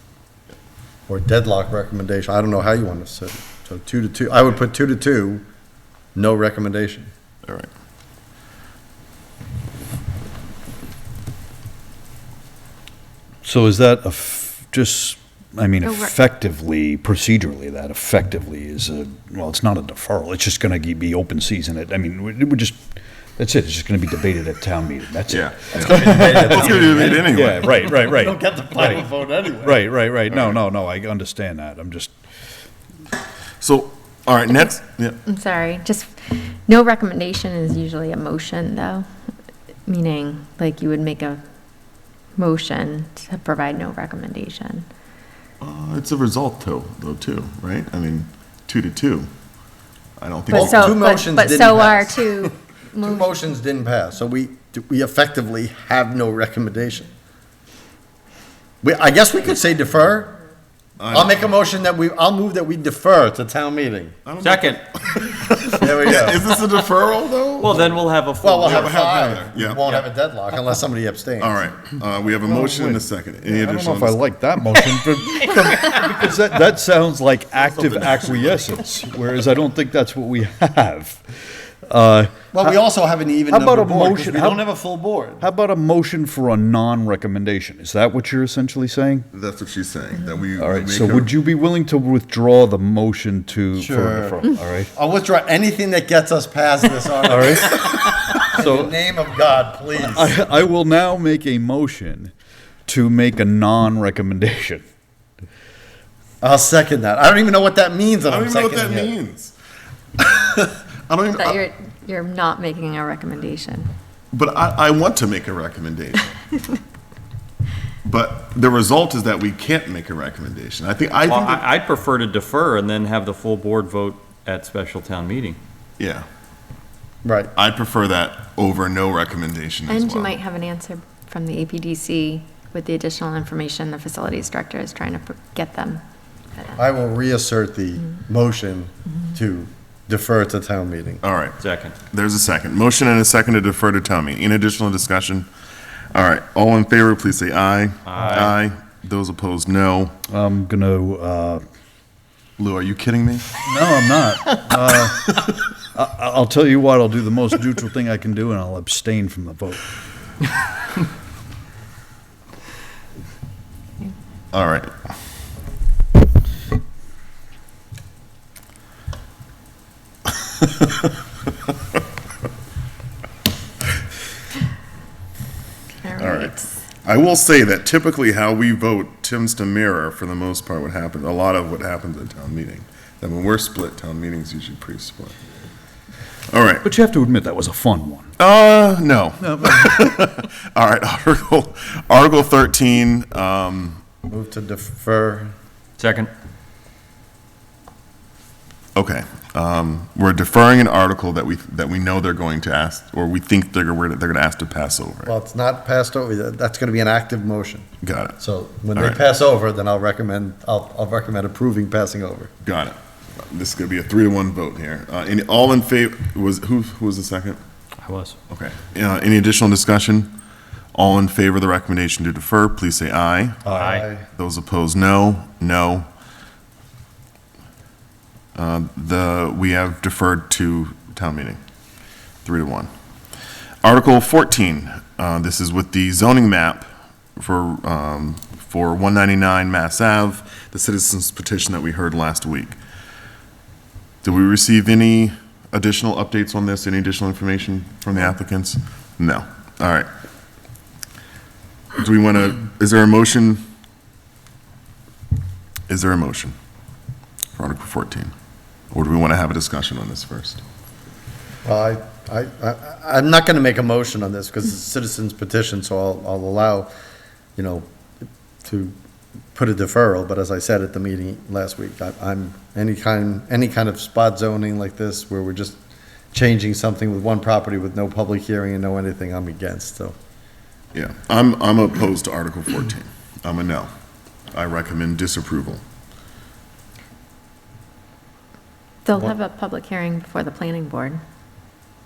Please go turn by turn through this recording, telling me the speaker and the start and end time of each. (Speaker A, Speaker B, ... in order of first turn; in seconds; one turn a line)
Speaker A: 1.1-5.4
Speaker A: 6.2-7.1
Speaker B: 13.4-29.1
Speaker C: 15.8-16.1
Speaker D: 25.3-27.7
Speaker A: 25.7-29.8
Speaker B: 29.6-32.1
Speaker D: 33.6-35.2
Speaker C: 35.3-39.1
Speaker C: 39.9-41.4
Speaker C: 42.4-44.9
Speaker D: 45.6-49.3
Speaker D: 50.2-51.0
Speaker C: 50.5-53.4
Speaker A: 50.5-52.5
Speaker A: 53.0-57.1
Speaker A: 58.8-60.3
Speaker D: 61.0-61.4
Speaker A: 61.1-64.2
Speaker D: 64.3-67.9
Speaker E: 64.4-64.8
Speaker A: 65.8-66.5
Speaker E: 67.6-69.2
Speaker A: 68.4-71.6
Speaker D: 68.6-69.9
Speaker D: 71.4-74.2
Speaker B: 72.4-82.8
Speaker D: 77.6-78.8
Speaker A: 82.5-85.5
Speaker B: 83.5-84.7
Speaker B: 85.4-89.3
Speaker D: 89.3-91.3
Speaker B: 90.6-94.9
Speaker A: 93.8-100.4
Speaker B: 97.3-99.0
Speaker B: 100.0-102.3
Speaker B: 102.9-104.8
Speaker A: 106.4-109.1
Speaker D: 108.3-109.5
Speaker D: 110.2-111.6
Speaker C: 111.4-113.9
Speaker D: 114.3-116.5
Speaker D: 118.0-121.7
Speaker E: 121.2-125.6
Speaker D: 126.0-126.3
Speaker A: 127.2-127.5
Speaker D: 127.5-130.3
Speaker C: 129.9-136.0
Speaker A: 136.8-141.2
Speaker D: 141.2-145.5
Speaker E: 141.6-141.9
Speaker D: 146.1-150.2
Speaker E: 148.1-148.6
Speaker B: 150.3-151.6
Speaker D: 152.6-153.5
Speaker B: 153.6-155.3
Speaker B: 155.9-159.8
Speaker D: 164.5-164.9
Speaker C: 176.0-176.7
Speaker D: 176.2-185.4
Speaker D: 186.5-186.9
Speaker B: 186.8-188.3
Speaker D: 188.4-194.0
Speaker B: 189.4-190.0
Speaker A: 194.3-195.5
Speaker E: 196.0-196.3
Speaker D: 198.9-205.3
Speaker A: 205.3-207.9
Speaker D: 208.0-208.4
Speaker A: 208.4-212.5
Speaker D: 208.9-209.2
Speaker D: 212.6-217.6
Speaker E: 218.0-218.4
Speaker D: 218.5-220.4
Speaker D: 220.9-226.1
Speaker E: 223.7-224.1
Speaker A: 223.7-224.2
Speaker D: 228.6-231.6
Speaker D: 232.4-232.9
Speaker D: 233.8-236.9
Speaker D: 237.4-242.8
Speaker D: 244.2-250.1
Speaker D: 252.0-253.7
Speaker D: 255.9-256.6
Speaker D: 257.6-258.3
Speaker D: 258.9-260.6
Speaker A: 261.6-266.9
Speaker A: 267.6-267.9
Speaker A: 268.6-268.9
Speaker A: 269.5-275.8
Speaker A: 276.3-280.1
Speaker D: 280.9-283.9
Speaker D: 284.5-285.8
Speaker C: 289.1-291.2